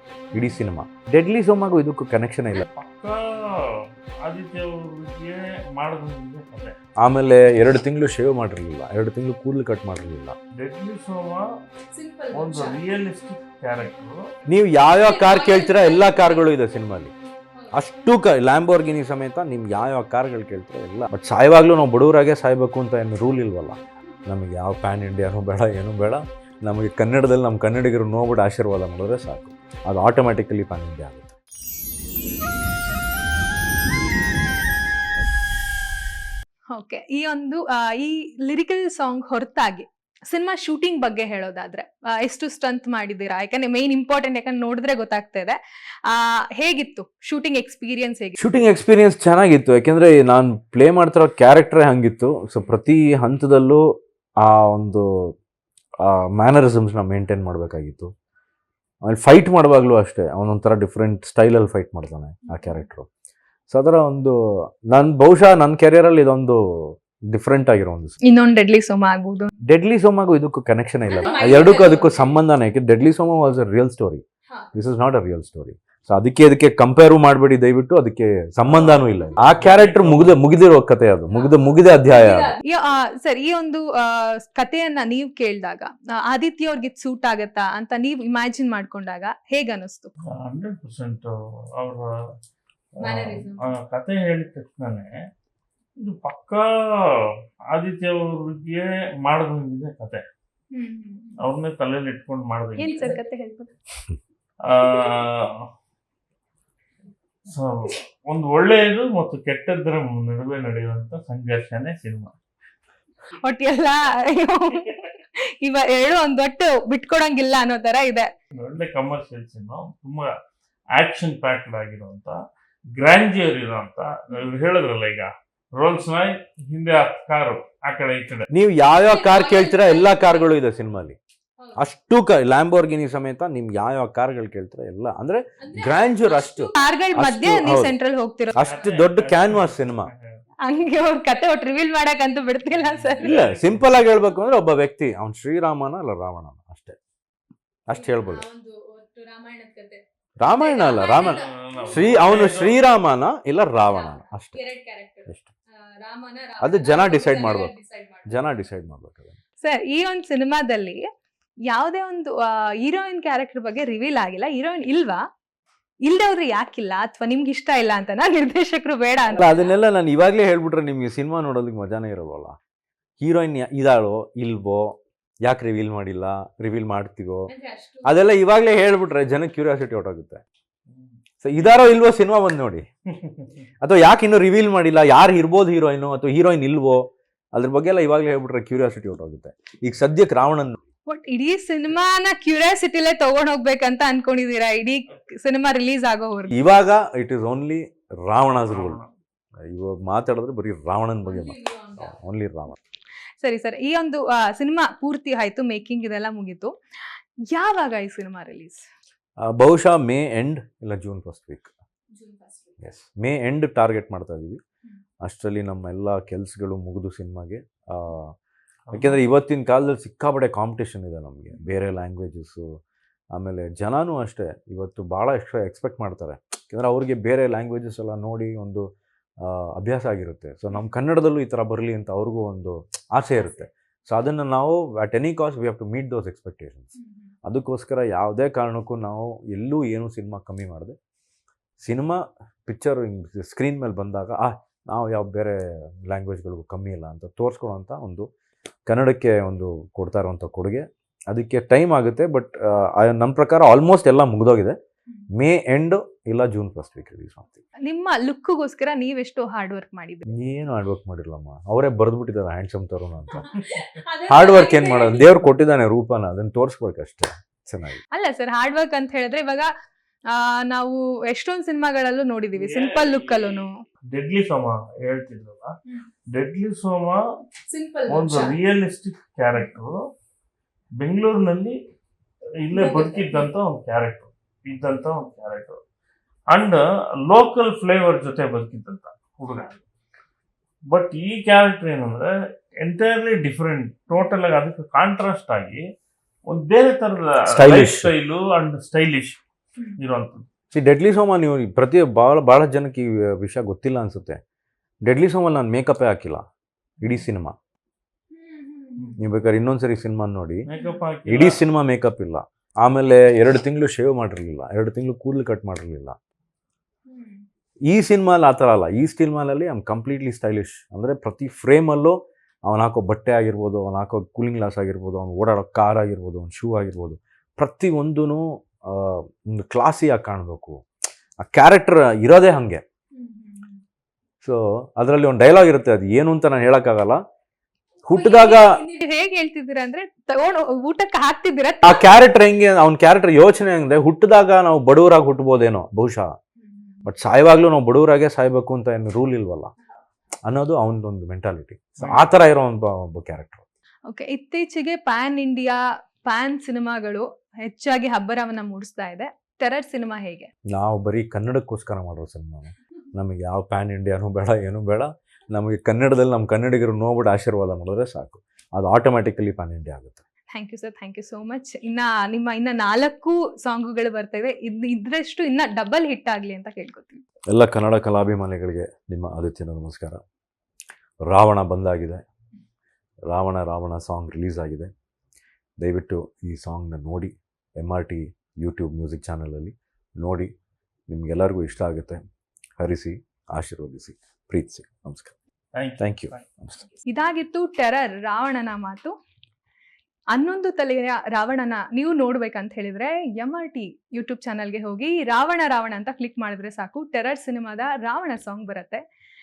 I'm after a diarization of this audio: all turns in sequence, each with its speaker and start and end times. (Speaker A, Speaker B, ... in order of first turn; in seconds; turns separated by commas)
Speaker A: 0.3-2.7, Speaker B: 2.6-6.8, Speaker A: 7.0-10.4, Speaker B: 10.6-11.5, Speaker C: 11.9-12.8, Speaker B: 12.3-14.3, Speaker A: 14.5-17.1, Speaker C: 14.9-16.4, Speaker A: 17.7-31.4, Speaker C: 36.8-48.4, Speaker A: 48.4-55.3, Speaker A: 56.0-58.1, Speaker A: 59.1-63.1, Speaker C: 62.5-62.8, Speaker A: 63.7-68.2, Speaker C: 68.2-69.5, Speaker A: 69.7-74.2, Speaker C: 71.1-72.3, Speaker A: 74.7-82.6, Speaker B: 78.7-80.4, Speaker C: 81.3-90.1, Speaker B: 90.2-92.1, Speaker B: 93.0-95.1, Speaker C: 93.0-93.7, Speaker B: 96.0-100.2, Speaker C: 100.7-101.4, Speaker B: 101.4-103.2, Speaker C: 102.8-103.8, Speaker B: 104.6-105.7, Speaker B: 107.5-112.3, Speaker C: 113.4-118.3, Speaker B: 118.5-120.3, Speaker B: 120.9-122.4, Speaker B: 123.0-128.5, Speaker A: 128.5-131.2, Speaker C: 129.0-130.5, Speaker A: 131.8-137.9, Speaker C: 135.6-138.6, Speaker A: 138.6-140.1, Speaker B: 138.6-140.4, Speaker C: 140.7-143.4, Speaker B: 142.8-143.8, Speaker A: 143.2-147.0, Speaker A: 147.9-148.5, Speaker C: 147.9-152.3, Speaker A: 150.4-154.6, Speaker B: 151.3-152.8, Speaker C: 153.8-158.6, Speaker A: 156.6-157.7, Speaker A: 158.3-159.4, Speaker C: 159.6-161.0, Speaker C: 161.7-165.2, Speaker C: 166.0-169.8, Speaker A: 169.3-172.6, Speaker A: 173.2-177.5, Speaker C: 177.5-178.3, Speaker A: 178.1-180.4, Speaker B: 180.9-181.2, Speaker A: 181.4-182.9, Speaker B: 183.1-183.5, Speaker A: 183.8-190.8, Speaker C: 191.1-196.5, Speaker A: 196.5-199.0, Speaker B: 198.7-199.1, Speaker A: 199.6-202.8, Speaker C: 201.2-202.2, Speaker C: 203.4-206.8, Speaker C: 207.5-208.9, Speaker A: 209.4-211.7, Speaker C: 212.1-212.8, Speaker A: 212.8-214.6, Speaker A: 215.2-218.3, Speaker B: 218.9-219.2, Speaker A: 218.9-222.8, Speaker A: 223.3-228.9, Speaker A: 229.4-236.9, Speaker C: 233.3-233.7, Speaker C: 237.0-237.3, Speaker A: 237.4-241.0, Speaker A: 241.8-248.3, Speaker A: 248.9-254.8, Speaker A: 255.3-257.6, Speaker C: 257.9-260.3, Speaker A: 260.3-263.6, Speaker C: 263.4-265.4, Speaker A: 264.3-268.0, Speaker C: 268.1-269.7, Speaker C: 270.3-273.8, Speaker B: 272.5-275.8, Speaker B: 276.3-277.2, Speaker C: 277.7-278.6, Speaker B: 278.1-280.0, Speaker B: 281.0-281.8, Speaker B: 282.6-285.8, Speaker C: 282.8-283.5, Speaker B: 286.5-289.8, Speaker B: 290.9-295.8, Speaker B: 296.5-299.4, Speaker A: 297.5-298.1, Speaker B: 300.0-300.4, Speaker A: 300.7-304.4, Speaker A: 305.0-306.4, Speaker A: 307.0-307.6, Speaker C: 308.3-309.2, Speaker A: 309.2-310.7, Speaker B: 310.7-311.6, Speaker A: 311.3-316.2, Speaker C: 317.1-317.4, Speaker A: 317.9-330.8, Speaker A: 331.4-332.8, Speaker C: 333.1-333.8, Speaker A: 334.4-337.2, Speaker A: 338.1-338.8, Speaker C: 338.1-342.1, Speaker A: 341.8-346.3, Speaker C: 346.6-347.0, Speaker A: 347.1-349.7, Speaker A: 350.5-353.6, Speaker C: 354.1-360.5, Speaker A: 360.7-370.2, Speaker C: 370.5-377.2, Speaker A: 377.5-380.2, Speaker A: 381.3-382.2, Speaker A: 383.3-384.9, Speaker A: 385.8-390.5, Speaker A: 391.1-392.2, Speaker A: 392.8-395.4, Speaker B: 395.8-396.5, Speaker A: 396.0-396.8, Speaker C: 397.1-399.1, Speaker C: 400.3-409.0